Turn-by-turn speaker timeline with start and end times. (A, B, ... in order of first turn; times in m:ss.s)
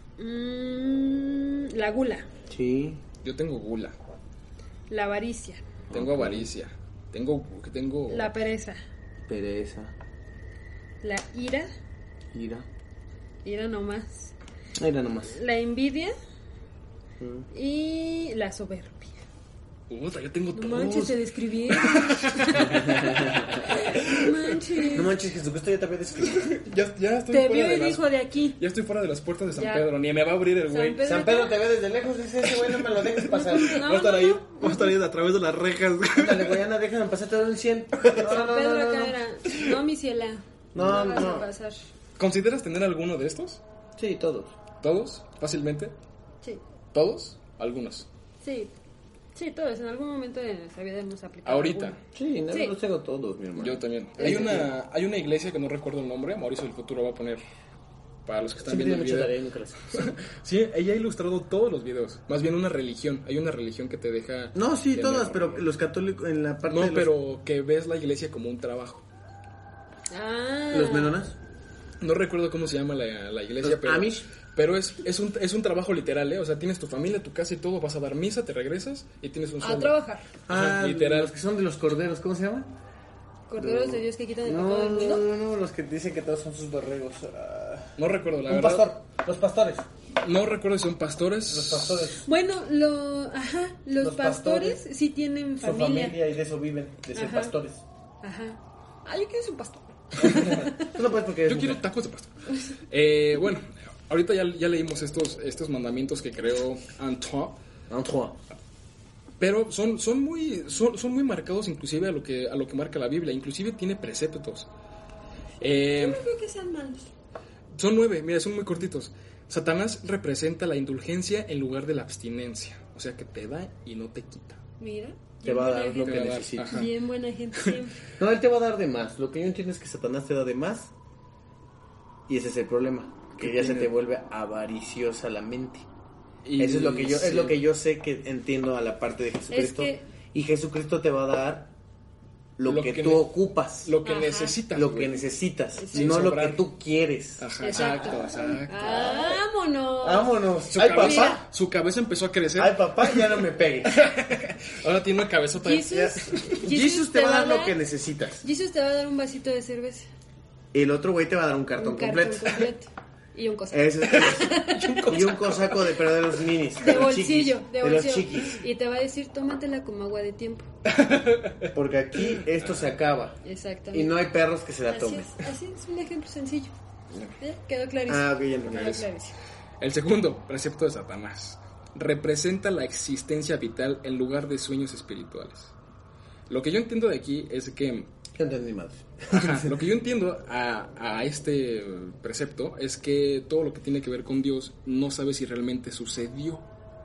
0:00.2-0:02.3 A
0:02.5-0:03.0 B
0:03.2-0:04.0 C
0:04.9-0:05.6 A
0:05.9-0:06.5 B
0:05.9-0:08.3 C
0:08.1-0:08.8 A
0:09.3-0:09.9 B
0:11.0-0:11.7 A
0:12.3-0:12.7 B
0:13.4-0:14.3 A
0:14.8-0:15.4 B
0:15.3-0:16.1 A
0:17.2-0:17.5 B
0:17.5-0:19.2 A
0:19.9-0:21.1 C
0:20.5-0:25.1 A
0:21.7-0:25.0 C
0:22.6-0:23.6 B
0:24.9-0:26.5 B
0:26.2-0:28.0 C
0:27.3-0:28.6 A
0:28.6-0:31.1 C
0:29.5-0:29.9 A
0:30.7-0:31.6 A
0:31.0-0:33.8 B
0:32.5-0:36.6 C
0:33.4-0:34.9 A
0:36.2-0:39.2 B
0:38.1-0:41.8 A
0:40.7-0:41.5 B
0:42.2-0:43.6 C
0:44.0-0:44.5 B
0:44.8-0:45.9 C
0:46.9-0:48.1 C
0:48.4-0:48.7 A
0:49.3-0:52.0 A
0:51.4-0:52.0 C
0:52.1-0:54.7 B
0:53.6-0:57.4 C
0:58.2-0:59.3 C
0:58.6-1:00.1 B
0:59.9-1:05.7 C
1:04.5-1:07.1 B
1:06.7-1:09.0 C
1:10.1-1:11.1 A
1:10.7-1:11.4 B
1:12.0-1:19.9 C
1:13.6-1:14.3 B
1:19.6-1:20.2 A
1:20.5-1:22.7 B
1:20.5-1:21.3 C
1:23.5-1:25.2 A
1:23.6-1:29.9 B
1:28.0-1:28.9 C
1:30.2-1:32.2 C
1:31.5-1:32.3 B
1:32.2-1:36.2 A
1:34.0-1:34.8 B
1:35.6-1:37.8 B
1:37.1-1:37.5 A
1:38.2-1:40.9 A
1:40.2-1:40.5 C
1:40.3-1:41.8 B
1:41.4-1:42.3 C
1:42.9-1:47.6 C
1:47.9-1:48.4 B
1:49.4-1:54.7 C
1:55.6-1:56.2 C
1:55.8-1:57.1 A
1:57.7-2:04.6 C
2:04.8-2:08.0 A
2:05.4-2:06.9 B
2:06.0-2:06.9 C
2:08.2-2:10.9 B
2:12.3-2:15.8 B
2:13.4-2:13.9 C
2:16.4-2:17.6 C
2:16.6-2:21.7 B
2:19.5-2:20.0 A
2:22.6-2:23.9 B
2:22.6-2:25.1 C
2:24.0-2:24.6 A
2:24.7-2:27.8 B
2:25.8-2:26.3 A
2:25.9-2:26.6 C
2:27.4-2:28.9 C
2:27.6-2:31.4 A
2:28.7-2:29.4 B
2:30.0-2:31.4 B
2:30.7-2:36.6 C
2:32.6-2:33.9 B
2:35.6-2:37.8 A
2:35.9-2:38.4 B
2:38.4-2:40.1 A
2:40.7-2:42.7 B
2:41.8-2:45.0 A
2:43.7-2:44.5 B
2:44.4-2:46.0 C
2:45.1-2:48.6 B
2:46.8-2:50.7 A
2:50.8-2:51.7 C
2:51.7-2:53.4 B
2:52.2-2:52.9 C
2:53.4-2:54.2 A
2:53.9-2:55.3 B
2:54.9-2:56.7 A
2:57.4-2:59.4 A
2:58.1-2:59.0 B
2:58.7-2:59.0 C
2:59.8-3:05.7 C
3:06.5-3:08.1 C
3:08.3-3:09.8 B
3:09.3-3:16.6 C